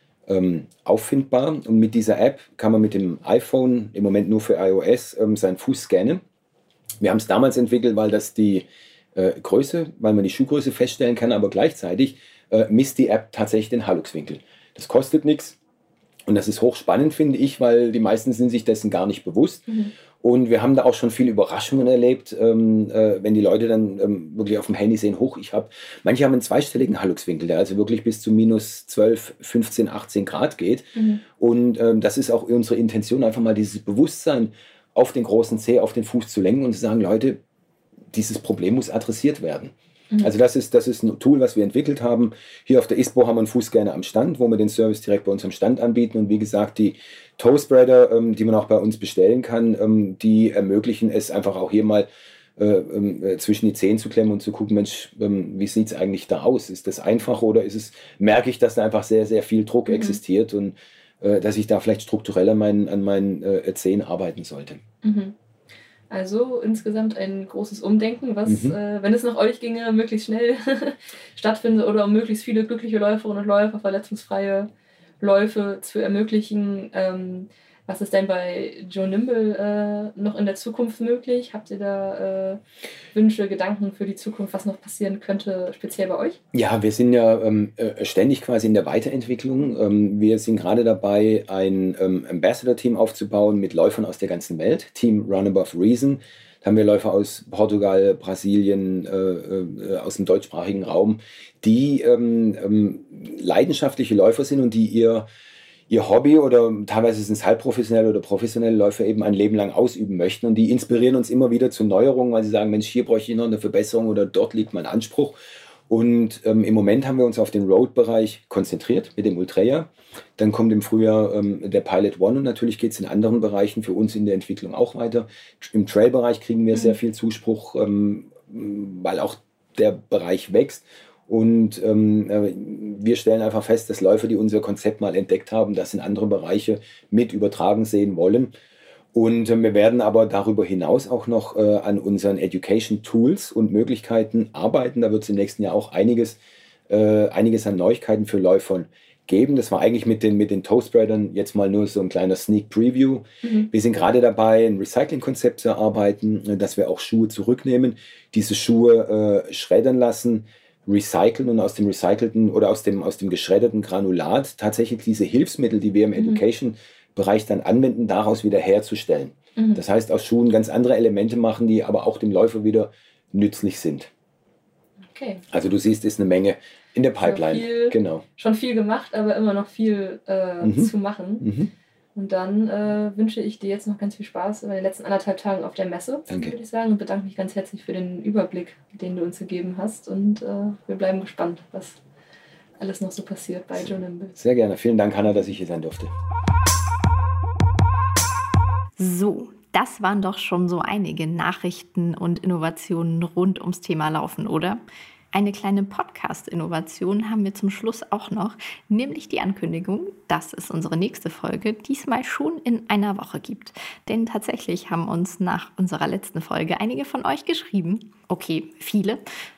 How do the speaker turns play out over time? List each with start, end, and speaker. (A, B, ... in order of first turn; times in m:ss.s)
0:00.3-0:06.2 A
0:07.0-0:15.6 A
0:16.3-0:19.6 A
0:20.2-0:37.4 A
0:30.9-0:31.2 B
0:38.1-1:04.8 A
0:59.9-1:00.2 B
1:05.0-1:05.3 B
1:06.1-1:14.7 B
1:08.4-1:08.8 A
1:15.2-1:22.6 B
1:23.1-1:26.4 B
1:26.5-1:45.3 A
1:45.9-1:55.4 A
1:55.9-2:18.5 A
2:19.1-2:54.1 A
2:33.4-2:33.7 B
2:46.2-2:46.4 B
2:49.6-2:49.8 B
2:55.1-2:55.4 B
2:55.5-2:58.2 A
2:57.2-3:01.5 B
3:00.6-3:01.7 A
3:02.1-3:12.0 B
3:06.3-3:06.5 A
3:12.8-3:14.3 B
3:14.4-3:16.1 A
3:19.0-3:24.8 C
3:25.3-3:39.2 C